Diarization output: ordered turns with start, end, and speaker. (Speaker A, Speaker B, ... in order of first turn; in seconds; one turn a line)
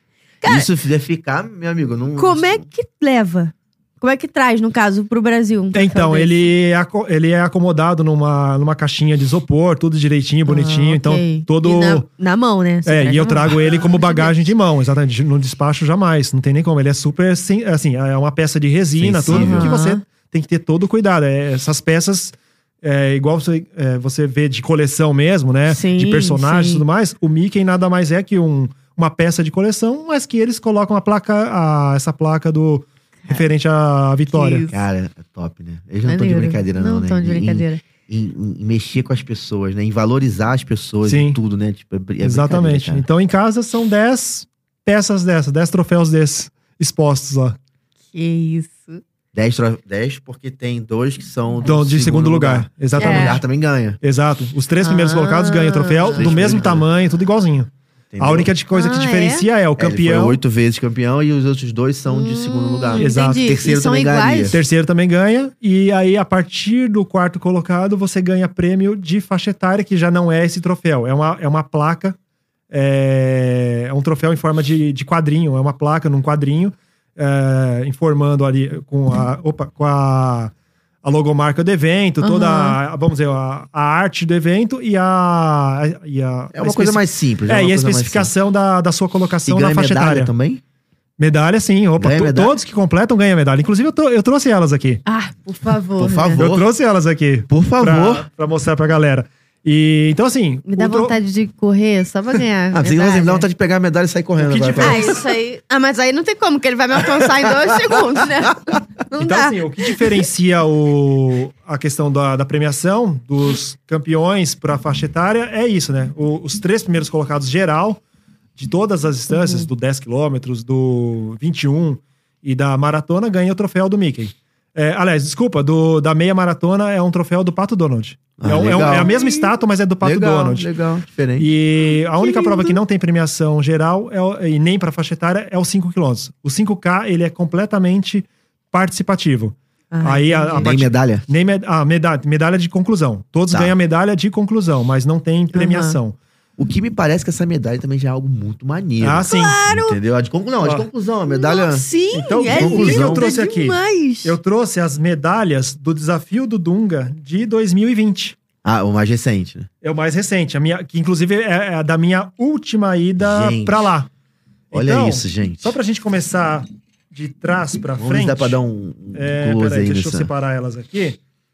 Speaker A: 0.4-0.7
Speaker B: 0.4-2.6
Speaker A: 2.2-6.4
Speaker C: 5.7-12.1
Speaker A: 10.5-14.5
Speaker C: 12.8-34.6
Speaker B: 19.0-19.7
Speaker A: 19.3-20.0
Speaker A: 25.7-26.8
Speaker A: 34.3-34.8
Speaker B: 34.7-43.0
Speaker A: 36.0-37.8
Speaker C: 41.0-41.4
Speaker C: 42.2-47.6
Speaker A: 48.1-49.0
Speaker B: 49.3-54.0
Speaker C: 51.6-53.4
Speaker A: 53.0-53.4
Speaker C: 54.0-60.4
Speaker A: 54.8-56.4
Speaker B: 56.0-56.9
Speaker B: 58.1-58.5
Speaker A: 58.7-59.5
Speaker B: 59.8-64.6
Speaker A: 62.1-64.5
Speaker C: 63.0-63.5
Speaker C: 64.5-72.2
Speaker C: 72.7-80.5
Speaker C: 81.0-90.3
Speaker A: 82.2-82.8
Speaker B: 86.5-88.3
Speaker B: 89.5-90.6
Speaker C: 91.2-95.0
Speaker B: 92.0-92.6
Speaker A: 95.0-96.4
Speaker B: 96.0-96.7
Speaker C: 96.3-101.1
Speaker B: 97.5-98.2
Speaker A: 100.7-103.5
Speaker B: 102.7-105.2
Speaker C: 104.4-105.2
Speaker A: 104.8-110.2
Speaker B: 107.0-108.8
Speaker C: 109.2-118.0
Speaker C: 118.5-130.7
Speaker A: 119.3-119.7
Speaker B: 128.4-129.3
Speaker B: 130.0-131.5
Speaker C: 131.4-146.2
Speaker A: 132.2-132.8
Speaker A: 139.9-140.7
Speaker B: 140.6-141.2
Speaker A: 145.5-146.0
Speaker B: 146.6-151.8
Speaker C: 149.0-149.6
Speaker A: 149.2-150.0
Speaker A: 151.3-154.3
Speaker C: 152.1-158.4
Speaker B: 152.5-153.3
Speaker B: 158.6-159.7
Speaker C: 159.8-164.1
Speaker B: 163.2-163.9
Speaker C: 164.7-168.6
Speaker B: 164.7-165.7
Speaker B: 168.0-170.3
Speaker C: 169.1-171.2